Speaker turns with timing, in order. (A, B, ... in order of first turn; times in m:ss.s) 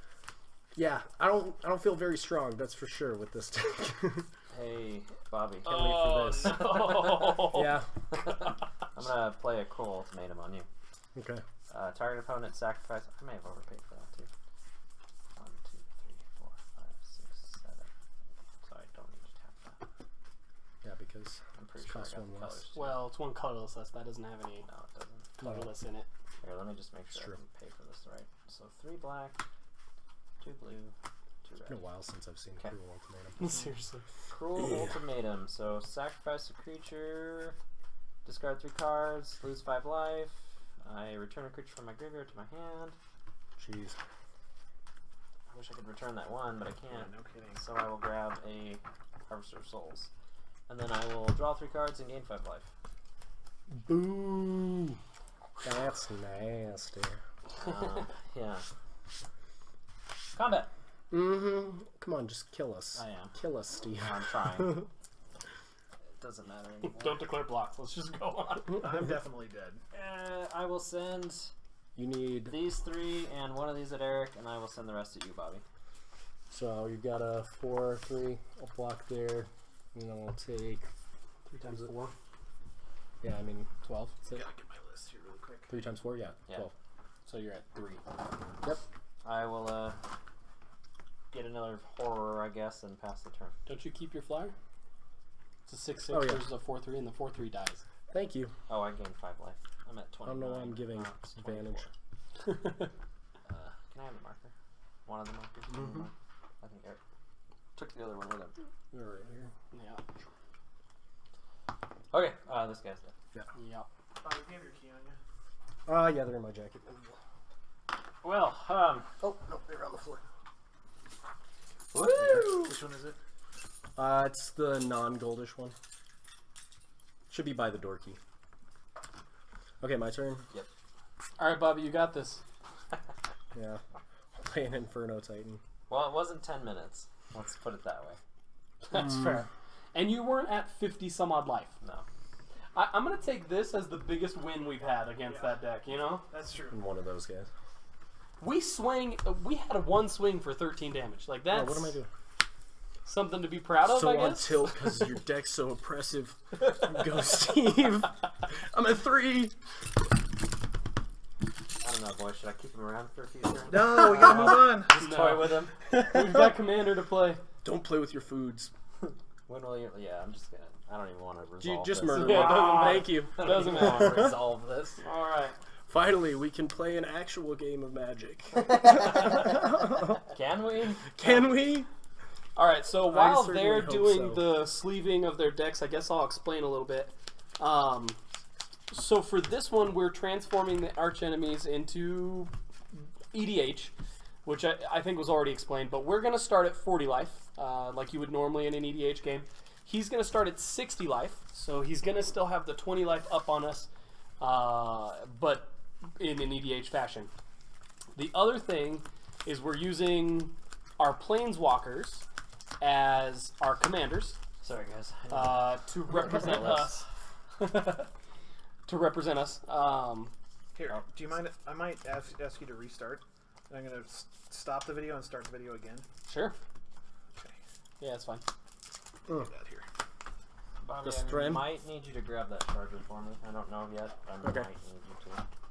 0:00.8-0:04.3 A
0:04.5-0:07.6 B
0:05.6-0:07.8 C
0:05.7-0:06.6 A
0:07.5-0:07.9 A
0:08.1-0:10.7 B
0:11.1-0:11.4 A
0:11.7-0:14.3 B
0:15.3-0:17.9 B
0:18.6-0:19.9 B
0:20.8-0:22.6 A
0:21.6-0:23.0 B
0:22.7-0:24.7 C
0:24.6-0:25.3 B
0:25.4-0:26.1 C
0:25.4-0:25.7 A
0:26.4-0:29.4 B
0:30.4-0:31.8 B
0:31.6-0:33.7 A
0:33.4-0:34.0 C
0:34.3-0:37.6 B
0:34.6-0:35.0 A
0:38.2-0:43.0 B
0:43.6-0:44.0 A
0:45.5-0:50.1 B
0:46.9-0:47.6 D
0:50.7-0:52.7 B
0:53.7-0:55.0 A
0:55.6-0:57.2 A
0:57.5-0:58.7 B
1:00.3-1:00.7 B
1:01.1-1:04.9 A
1:02.9-1:03.4 B
1:04.0-1:04.8 B
1:06.2-1:07.3 B
1:06.9-1:08.8 C
1:08.7-1:09.8 D
1:09.9-1:11.5 B
1:12.0-1:12.6 A
1:12.4-1:15.6 B
1:16.5-1:20.9 A
1:21.5-1:22.1 C
1:23.2-1:23.7 A
1:23.8-1:24.2 C
1:24.2-1:25.8 D
1:25.7-1:26.7 A
1:27.2-1:27.6 C
1:27.7-1:28.0 B
1:29.2-1:30.0 B
1:31.3-1:33.6 B
1:33.7-1:34.5 C
1:35.7-1:37.8 C
1:36.1-1:36.5 A
1:38.1-1:38.5 A
1:38.7-1:41.9 B
1:40.2-1:41.8 A
1:42.4-1:42.9 C
1:43.4-1:44.5 B
1:45.0-1:47.0 B
1:45.7-1:46.1 A
1:47.8-1:48.5 B
1:48.9-1:49.5 A
1:49.7-1:50.0 C
1:52.1-1:53.1 B
1:53.5-1:53.9 C
1:54.2-1:55.2 D
1:55.8-1:57.2 A
1:58.2-1:59.2 B
1:59.2-2:00.2 A
2:01.9-2:02.8 B
2:02.5-2:03.2 D
2:04.0-2:05.8 A
2:07.3-2:08.2 A
2:09.8-2:10.5 A
2:11.4-2:12.4 C
2:13.5-2:13.8 A
2:14.3-2:15.6 A
2:15.9-2:18.2 B
2:18.9-2:21.7 C
2:18.9-2:19.4 A
2:22.7-2:26.3 C
2:25.2-2:25.6 D
2:26.3-2:26.8 D
2:26.7-2:27.5 A
2:28.4-2:32.0 C
2:31.5-2:32.1 A
2:33.0-2:34.8 C
2:33.8-2:39.6 A
2:41.8-2:45.7 B
2:43.7-2:45.1 D
2:44.2-2:47.4 C
2:45.9-2:46.6 A
2:47.6-2:48.7 A
2:49.0-2:55.0 B
2:51.6-2:54.4 A
2:52.0-2:54.4 C
2:55.0-2:55.6 C
2:55.9-3:00.2 A
2:58.6-3:01.5 B
3:01.1-3:01.9 A
3:02.6-3:08.2 C
3:03.0-3:04.6 A
3:08.9-3:13.9 C
3:14.4-3:23.9 C
3:24.4-3:27.3 C
3:28.1-3:32.2 C
3:32.8-3:34.4 C
3:34.6-3:37.0 B
3:35.3-3:37.0 C
3:37.6-3:38.1 C
3:38.8-3:40.3 C
3:40.8-3:46.0 D
3:46.2-3:46.6 C
3:48.0-3:48.4 C
3:49.3-3:49.8 D
3:50.8-3:55.4 B
3:51.0-3:51.7 A